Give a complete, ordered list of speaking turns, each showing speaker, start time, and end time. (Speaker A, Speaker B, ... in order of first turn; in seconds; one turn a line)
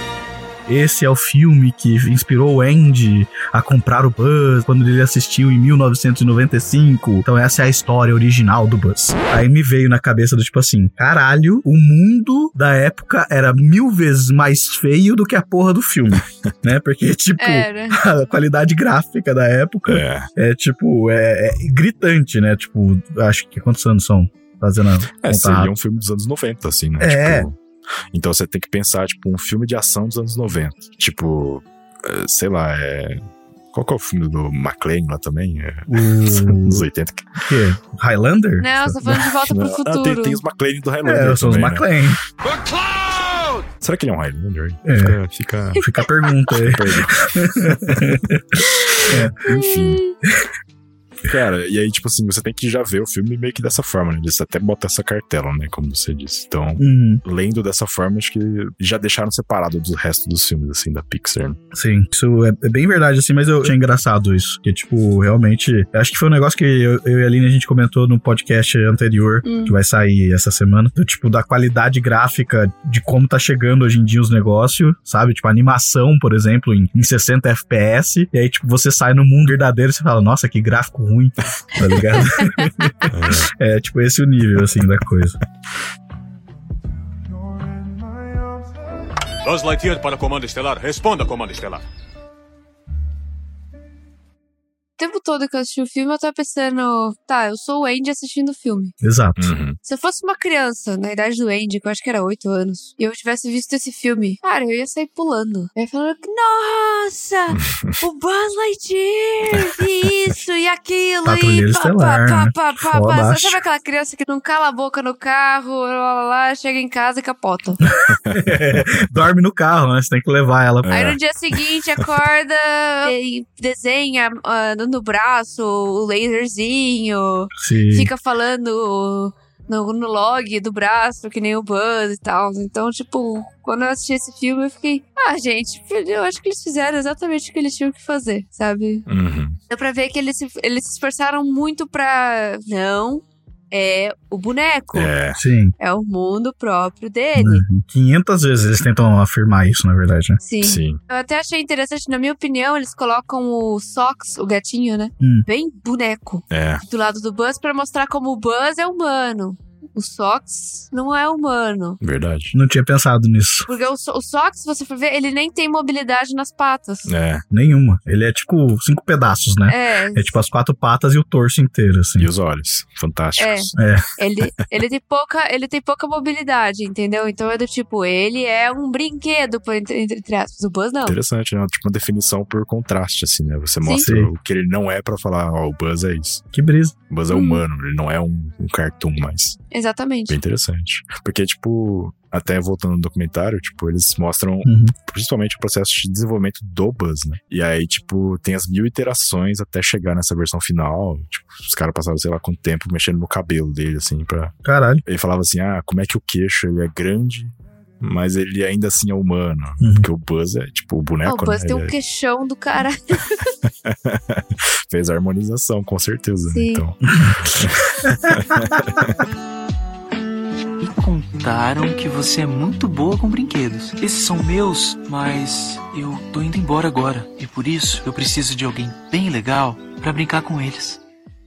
Speaker A: 0.7-25.7
Speaker B: 17.4-18.0
Speaker C: 19.9-20.3
Speaker C: 25.2-27.6
Speaker A: 27.0-27.5
Speaker C: 28.1-37.5
Speaker A: 35.9-36.9
Speaker A: 37.4-39.2
Speaker B: 38.6-40.4
Speaker C: 39.4-41.9
Speaker A: 41.0-42.2
Speaker C: 43.8-45.9
Speaker A: 44.9-45.2
Speaker A: 45.8-49.4
Speaker C: 46.5-48.0
Speaker C: 49.0-50.0
Speaker B: 49.5-50.1
Speaker C: 51.3-61.6
Speaker A: 56.8-57.2
Speaker A: 61.7-85.4
Speaker B: 69.4-69.8
Speaker C: 83.1-83.5
Speaker D: 89.4-91.8
Speaker B: 95.0-98.9
Speaker A: 99.0-99.5
Speaker C: 99.4-99.8
Speaker B: 99.8-117.8
Speaker C: 107.5-108.0
Speaker A: 111.2-113.6
Speaker C: 118.1-119.0
Speaker A: 118.3-121.0
Speaker C: 120.8-121.2
Speaker B: 120.9-139.1
Speaker A: 127.6-128.1
Speaker C: 139.1-139.6
Speaker B: 139.7-145.1
Speaker C: 144.9-145.4
Speaker A: 145.3-145.8
Speaker B: 145.8-147.7
Speaker A: 147.3-150.4
Speaker B: 150.4-162.0
Speaker C: 150.6-151.0
Speaker A: 155.2-155.5
Speaker C: 156.5-156.8
Speaker C: 162.0-162.6
Speaker A: 162.5-163.7
Speaker B: 163.7-167.1
Speaker C: 167.1-167.4
Speaker A: 167.5-172.3
Speaker B: 169.7-170.4
Speaker C: 172.2-173.8
Speaker B: 173.4-181.2
Speaker A: 173.8-174.1
Speaker C: 181.1-186.4
Speaker B: 183.8-184.1
Speaker A: 184.0-184.3
Speaker A: 186.5-186.9
Speaker C: 187.1-189.6
Speaker B: 187.3-187.6
Speaker B: 189.7-190.4
Speaker C: 190.3-211.9
Speaker A: 194.6-194.9
Speaker A: 204.6-205.0
Speaker A: 209.8-210.1
Speaker B: 211.2-213.5
Speaker C: 213.8-219.2
Speaker B: 216.5-216.8
Speaker A: 217.1-217.4
Speaker E: 220.8-231.0